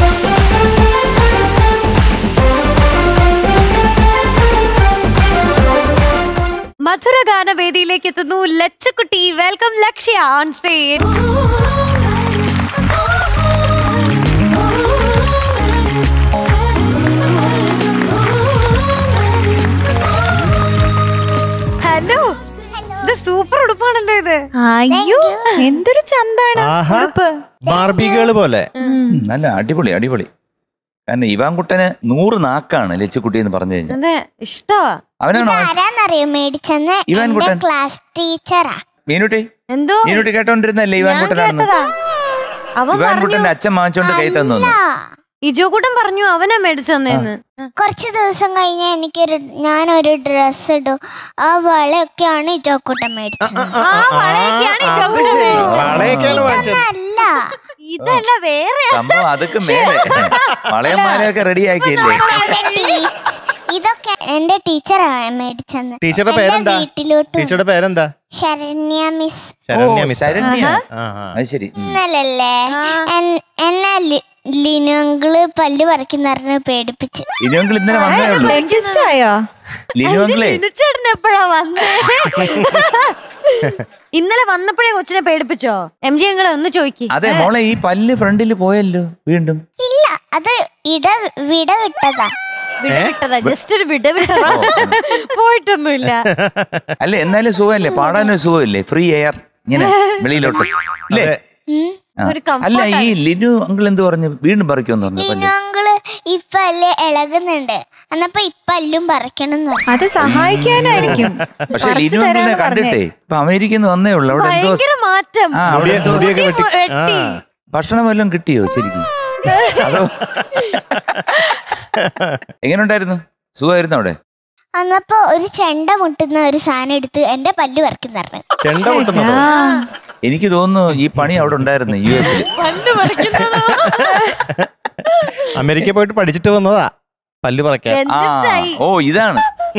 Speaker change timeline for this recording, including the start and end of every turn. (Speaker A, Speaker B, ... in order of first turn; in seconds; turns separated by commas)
Speaker A: 6.8-11.1, Speaker A: 21.8-22.3, Speaker B: 22.7-23.1, Speaker A: 23.0-24.4, Speaker C: 24.6-27.9, Speaker B: 24.9-25.5, Speaker D: 26.6-27.1, Speaker D: 27.6-28.7, Speaker C: 28.8-29.1, Speaker E: 29.1-30.3, Speaker E: 31.1-34.0, Speaker A: 33.9-34.9, Speaker E: 35.2-35.8, Speaker B: 35.3-38.8, Speaker E: 37.1-37.6, Speaker E: 39.1-39.4, Speaker A: 39.7-40.3, Speaker E: 40.0-41.7, Speaker A: 41.0-41.8, Speaker A: 42.8-43.5, Speaker E: 42.9-44.8, Speaker B: 44.0-44.9, Speaker A: 45.5-47.7, Speaker B: 47.8-53.8, Speaker D: 53.4-56.9, Speaker A: 53.8-56.3, Speaker E: 55.5-56.7, Speaker B: 55.9-57.5, Speaker A: 57.9-61.3, Speaker E: 58.9-62.5, Speaker B: 62.0-67.6, Speaker D: 66.0-68.1, Speaker B: 68.4-69.6, Speaker D: 69.7-71.3, Speaker E: 69.7-70.8, Speaker C: 70.4-70.7, Speaker E: 71.3-72.0, Speaker B: 71.8-77.3, Speaker A: 72.8-73.0, Speaker E: 77.4-78.6, Speaker A: 77.9-79.1, Speaker C: 78.0-79.4, Speaker E: 80.0-80.6, Speaker A: 80.0-83.1, Speaker A: 83.6-87.1, Speaker E: 87.1-89.6, Speaker B: 89.8-92.3, Speaker A: 92.8-96.2, Speaker D: 92.9-93.5, Speaker E: 94.5-95.0, Speaker D: 96.1-96.9, Speaker E: 97.0-101.3, Speaker A: 99.8-100.1, Speaker D: 100.3-101.4, Speaker B: 101.7-102.0, Speaker E: 102.2-105.5, Speaker A: 102.2-103.1, Speaker B: 105.2-109.8, Speaker C: 109.9-113.0, Speaker E: 110.3-114.8, Speaker D: 110.9-111.7, Speaker A: 114.3-117.4, Speaker E: 115.5-116.3, Speaker D: 115.7-117.4, Speaker E: 117.7-119.1, Speaker E: 119.8-120.1, Speaker D: 120.4-121.2, Speaker D: 122.0-122.4, Speaker E: 122.6-124.2, Speaker B: 124.8-128.4, Speaker D: 128.6-129.5, Speaker C: 128.8-129.8, Speaker A: 129.5-129.8, Speaker E: 130.2-132.5, Speaker D: 131.1-132.1, Speaker A: 132.4-134.4, Speaker D: 133.3-134.7, Speaker D: 135.5-136.9, Speaker D: 137.4-138.0, Speaker A: 137.9-138.8, Speaker E: 138.1-139.4